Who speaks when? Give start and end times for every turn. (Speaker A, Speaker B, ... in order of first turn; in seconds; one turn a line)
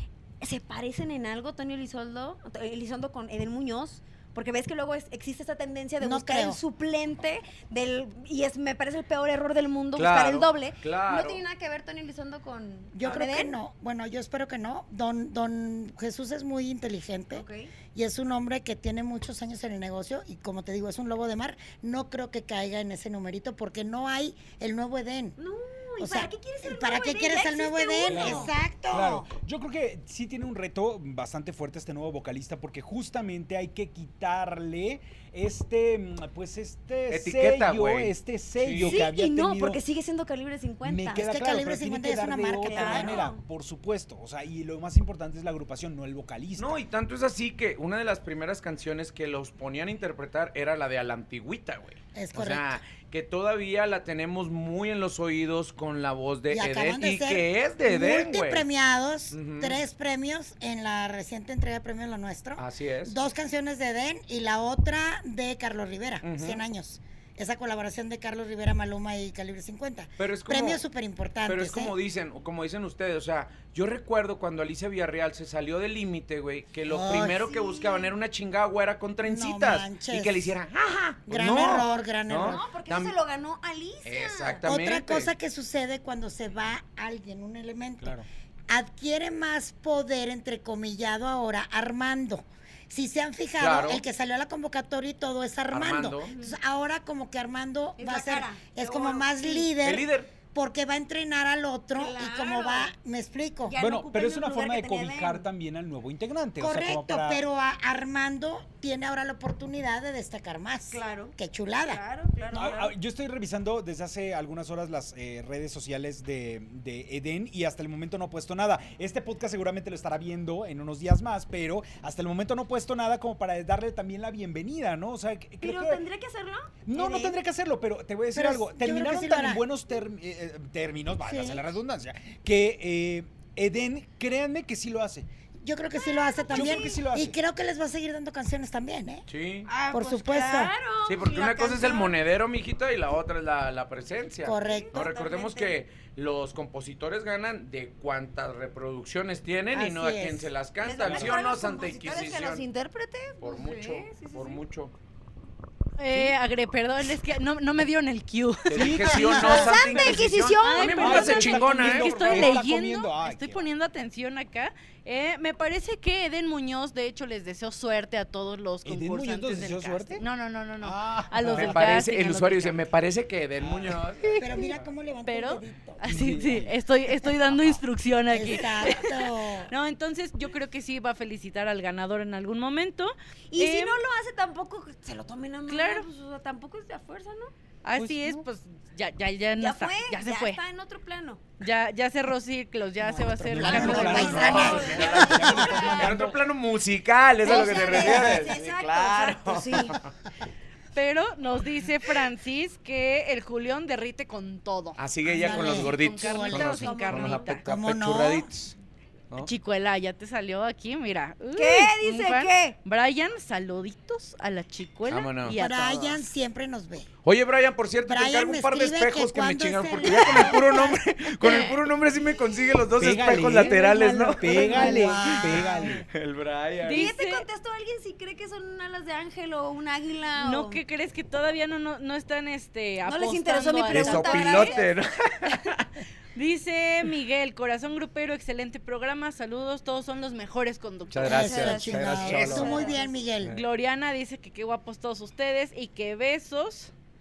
Speaker A: 0.4-13.6
Speaker B: 6.0-6.6
Speaker C: 9.9-11.4
Speaker B: 12.9-25.4
Speaker A: 17.3-17.7
Speaker A: 25.4-28.5
Speaker B: 26.0-29.3
Speaker D: 28.1-39.8
Speaker C: 37.1-39.0
Speaker A: 38.8-41.3
Speaker D: 40.8-46.8
Speaker B: 41.2-43.3
Speaker A: 42.6-43.4
Speaker C: 46.6-58.6
Speaker B: 52.1-52.8
Speaker B: 56.5-71.9
Speaker C: 59.3-59.8
Speaker C: 62.6-63.1
Speaker C: 66.2-66.6
Speaker C: 70.2-70.8
Speaker C: 71.5-83.1
Speaker B: 76.8-77.5
Speaker A: 77.4-78.1
Speaker B: 79.2-80.5
Speaker B: 81.3-82.7
Speaker A: 82.4-84.7
Speaker C: 84.0-85.3
Speaker B: 84.7-88.2
Speaker B: 88.7-103.7
Speaker C: 93.6-94.0
Speaker C: 95.7-96.3
Speaker A: 96.3-96.6
Speaker A: 98.0-99.7
Speaker C: 99.8-100.3
Speaker A: 101.9-102.9
Speaker A: 103.6-105.5
Speaker D: 103.8-107.4
Speaker B: 106.6-112.0
Speaker A: 110.9-112.9
Speaker D: 112.5-126.0
Speaker A: 125.6-127.4
Speaker D: 126.8-135.3
Speaker B: 128.3-129.6
Speaker B: 131.2-131.6
Speaker B: 135.6-139.2
Speaker A: 135.9-137.0
Speaker D: 136.5-137.4
Speaker C: 139.3-139.7
Speaker A: 139.7-142.2
Speaker B: 139.9-140.7
Speaker C: 141.1-152.6
Speaker B: 144.4-145.0
Speaker A: 144.6-145.8
Speaker B: 149.7-150.5
Speaker A: 150.8-154.6
Speaker D: 151.1-151.4
Speaker C: 153.4-154.9
Speaker E: 156.0-159.1
Speaker C: 158.7-162.6
Speaker D: 158.7-160.1
Speaker A: 159.1-161.5
Speaker E: 160.6-172.8
Speaker D: 160.9-163.7
Speaker D: 168.8-170.2
Speaker D: 170.8-172.0
Speaker C: 171.5-174.7
Speaker D: 173.6-174.4
Speaker B: 174.4-176.2
Speaker E: 175.2-184.0
Speaker D: 176.0-176.7
Speaker B: 178.3-179.7
Speaker A: 183.5-187.5
Speaker E: 185.7-186.1
Speaker E: 187.8-190.6
Speaker D: 187.9-188.4
Speaker A: 189.6-191.4
Speaker E: 191.6-194.9
Speaker B: 193.0-196.0
Speaker D: 193.5-196.4
Speaker C: 193.7-200.1
Speaker A: 193.8-196.0
Speaker A: 197.4-200.0
Speaker B: 197.5-198.4
Speaker E: 200.9-207.6
Speaker C: 205.0-208.8
Speaker B: 205.2-208.5
Speaker A: 206.7-207.5
Speaker E: 209.4-216.2
Speaker A: 211.6-212.8
Speaker C: 215.1-215.6
Speaker B: 215.6-217.1
Speaker C: 217.2-227.1
Speaker B: 218.1-221.0
Speaker D: 223.0-226.1
Speaker B: 224.4-226.0
Speaker E: 226.8-227.4
Speaker A: 226.9-230.8
Speaker E: 230.4-234.8
Speaker A: 233.0-234.9
Speaker C: 233.9-235.9
Speaker E: 236.3-241.8
Speaker C: 241.1-242.8
Speaker A: 241.2-243.2
Speaker B: 241.2-243.5
Speaker D: 242.2-242.6
Speaker E: 242.7-242.9
Speaker E: 243.5-246.9